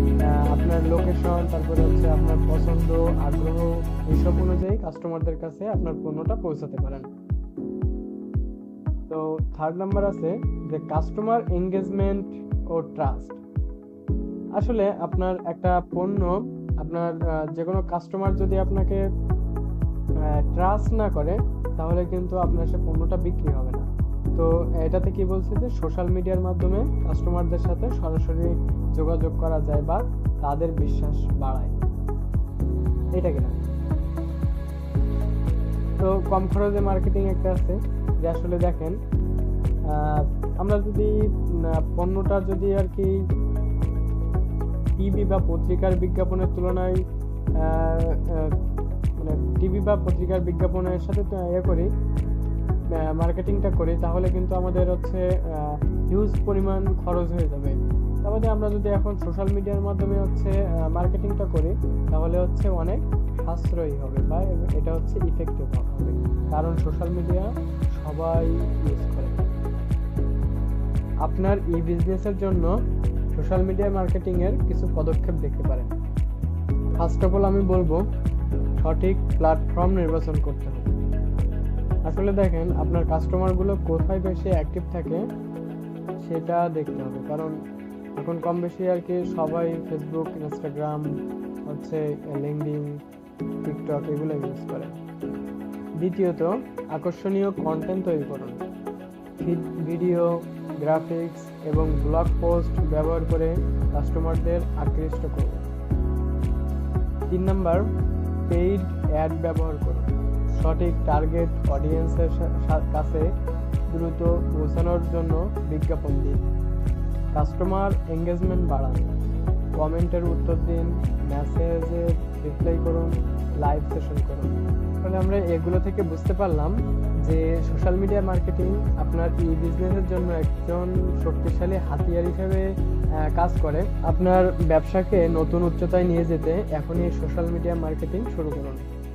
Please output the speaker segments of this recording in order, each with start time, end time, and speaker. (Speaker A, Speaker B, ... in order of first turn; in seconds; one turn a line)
Speaker A: 0.3-7.1
Speaker A: 9.1-13.4
Speaker A: 14.6-19.0
Speaker A: 20.4-31.8
Speaker A: 33.2-33.5
Speaker A: 36.0-39.0
Speaker A: 39.9-41.1
Speaker A: 41.7-43.1
Speaker A: 45.0-47.0
Speaker A: 47.6-48.5
Speaker A: 49.2-51.9
Speaker A: 52.9-67.5
Speaker A: 68.0-69.4
Speaker A: 71.2-72.7
Speaker A: 73.3-75.9
Speaker A: 77.0-78.0
Speaker A: 78.8-80.9
Speaker A: 82.1-85.2
Speaker A: 86.2-87.5
Speaker A: 88.2-91.0
Speaker A: 91.7-92.9
Speaker A: 93.7-94.9
Speaker A: 96.0-98.6
Speaker A: 99.4-100.3
Speaker A: 100.8-105.6
Speaker A: 107.3-107.8
Speaker A: 108.5-110.0
Speaker A: 110.6-113.2
Speaker A: 113.9-116.4
Speaker A: 117.3-119.1
Speaker A: 119.8-132.7
Speaker A: 133.3-138.9